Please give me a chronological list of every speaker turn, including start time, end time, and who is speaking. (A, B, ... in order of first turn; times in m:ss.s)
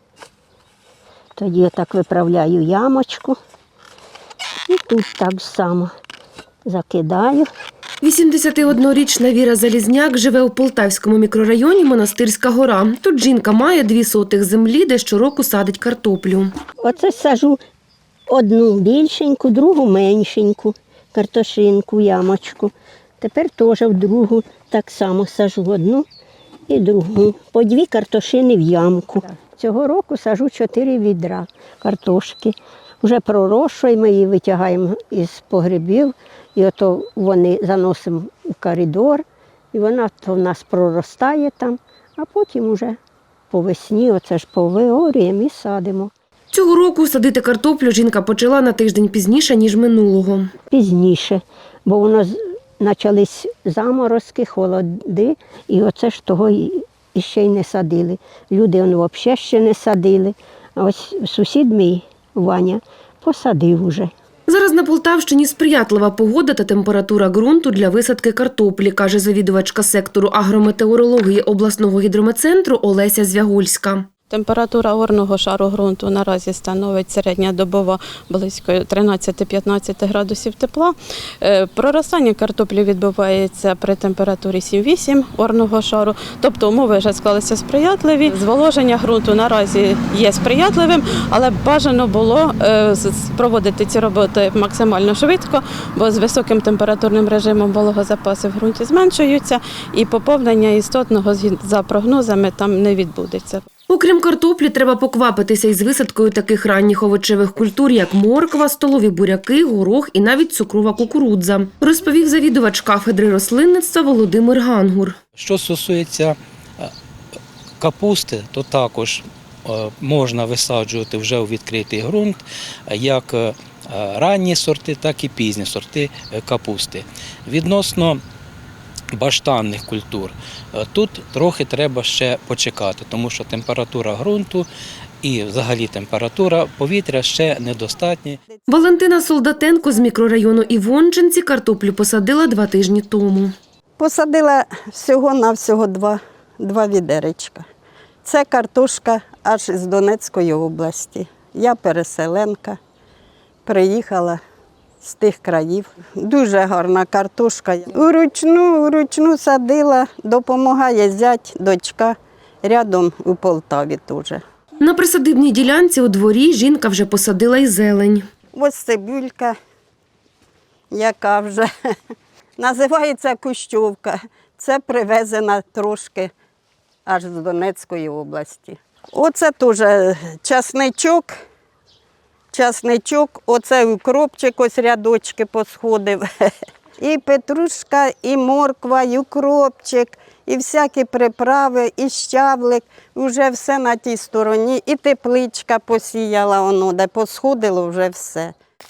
0:01.4-0:03.4 A
0:04.7-0:05.9 A
0:06.7-0:07.5 A
0:08.0-0:16.5 B
0:16.8-0:17.6 A
0:18.3-0:26.1 A
0:26.7-0:43.0 A
0:43.5-0:46.1 A
0:46.5-0:50.5 B
0:50.7-1:04.1 A
1:04.5-1:14.1 B
1:14.3-1:43.7 C
1:43.9-1:55.2 B
1:55.4-1:56.9 D
1:57.8-2:08.2 D
2:09.1-2:14.7 D
2:15.2-2:18.4 D
2:18.5-2:18.8 E
2:18.7-2:23.5 B
2:24.0-2:27.6 E
2:28.2-2:32.8 E
2:33.7-2:34.4 E
2:35.0-2:44.4 E
2:44.8-2:48.3 B
2:48.5-2:49.6 E
2:50.9-2:51.7 E
2:52.6-2:56.3 E
2:57.1-3:01.4 E
3:02.5-3:18.5 E